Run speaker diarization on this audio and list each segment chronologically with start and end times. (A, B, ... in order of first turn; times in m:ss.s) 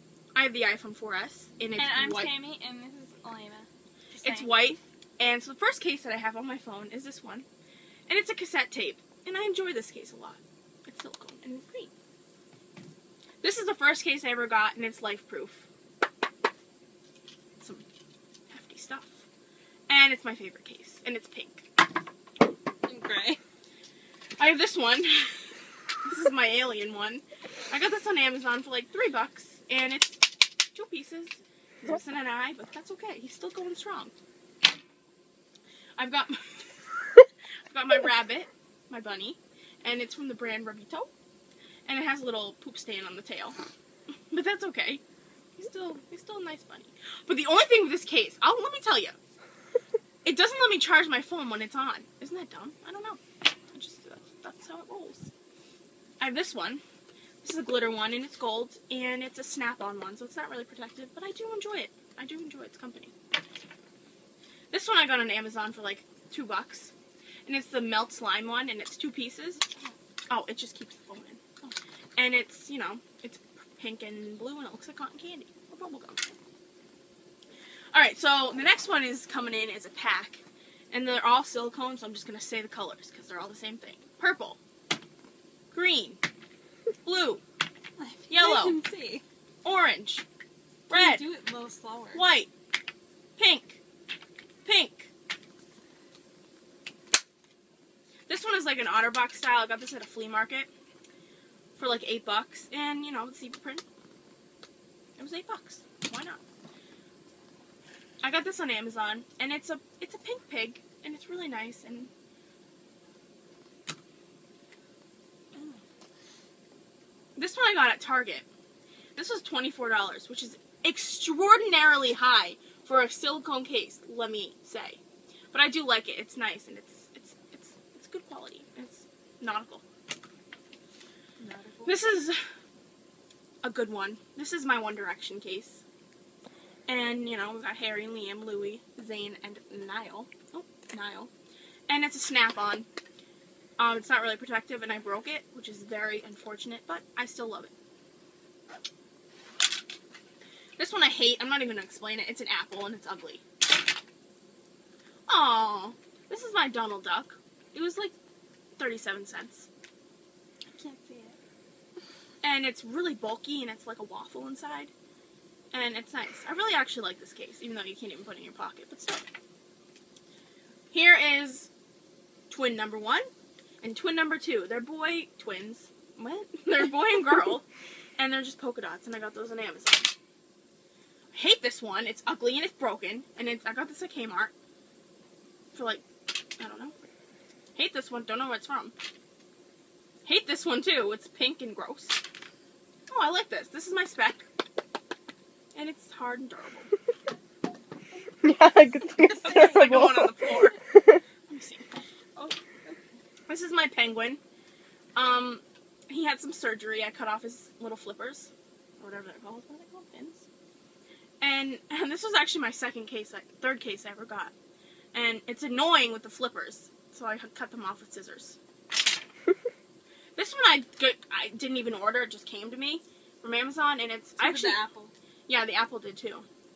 0:00.4-0:02.3 A
0:01.8-0:04.8 B
0:04.2-0:07.5 A
0:08.1-0:11.9 A
0:13.4-0:15.7 A
0:17.6-0:17.8 A
0:18.5-0:19.2 A
0:19.9-0:21.7 A
0:22.8-0:23.4 B
0:24.4-0:25.4 A
0:26.0-0:34.1 A
0:36.0-0:41.1 A
0:41.9-0:43.6 A
0:44.3-0:45.0 A
0:45.6-0:49.2 A
0:50.2-0:55.3 A
0:56.2-0:56.8 A
0:57.4-1:03.1 A
1:04.7-1:06.9 A
1:07.5-1:09.6 A
1:10.3-1:16.3 A
1:17.9-1:24.6 A
1:25.7-1:26.2 A
1:27.0-1:27.4 A
1:28.0-1:29.2 B
1:28.3-1:28.8 A
1:29.6-1:30.2 A
1:30.9-1:31.2 A
1:30.9-1:32.2 B
1:32.1-1:32.5 A
1:33.4-1:33.8 A
1:34.6-1:35.1 A
1:38.3-1:40.7 A
1:41.8-1:43.8 A
1:45.2-1:46.4 A
1:48.2-1:52.1 A
1:57.4-1:58.5 A
1:59.2-2:05.0 A
2:05.5-2:09.8 A
2:11.4-2:12.0 B
2:11.8-2:12.4 A
2:13.6-2:15.8 A
2:16.9-2:21.3 A
2:21.9-2:22.9 A
2:23.8-2:27.7 A
2:30.8-2:33.4 A
2:35.3-2:38.2 A
2:38.8-2:39.7 A
2:40.7-2:41.4 B
2:42.4-2:44.9 A
2:45.7-2:49.3 A
2:50.9-2:51.7 A
2:52.5-2:53.3 A
2:53.8-2:57.6 A
2:58.2-3:00.2 A
3:01.3-3:04.5 A
3:05.7-3:06.0 A
3:06.6-3:06.9 A
3:07.8-3:08.9 A
3:10.2-3:12.2 A
3:13.1-3:14.4 A
3:15.7-3:16.9 A
3:18.4-3:20.4 C
3:19.2-3:19.9 B
3:19.4-3:20.8 A
3:20.9-3:21.2 C
3:21.5-3:21.9 A
3:22.4-3:23.0 B
3:23.5-3:24.4 A
3:25.2-3:30.5 A
3:31.4-3:34.5 A
3:35.1-3:38.6 A
3:40.4-3:44.8 A
3:44.4-3:45.1 B
3:45.5-3:46.5 A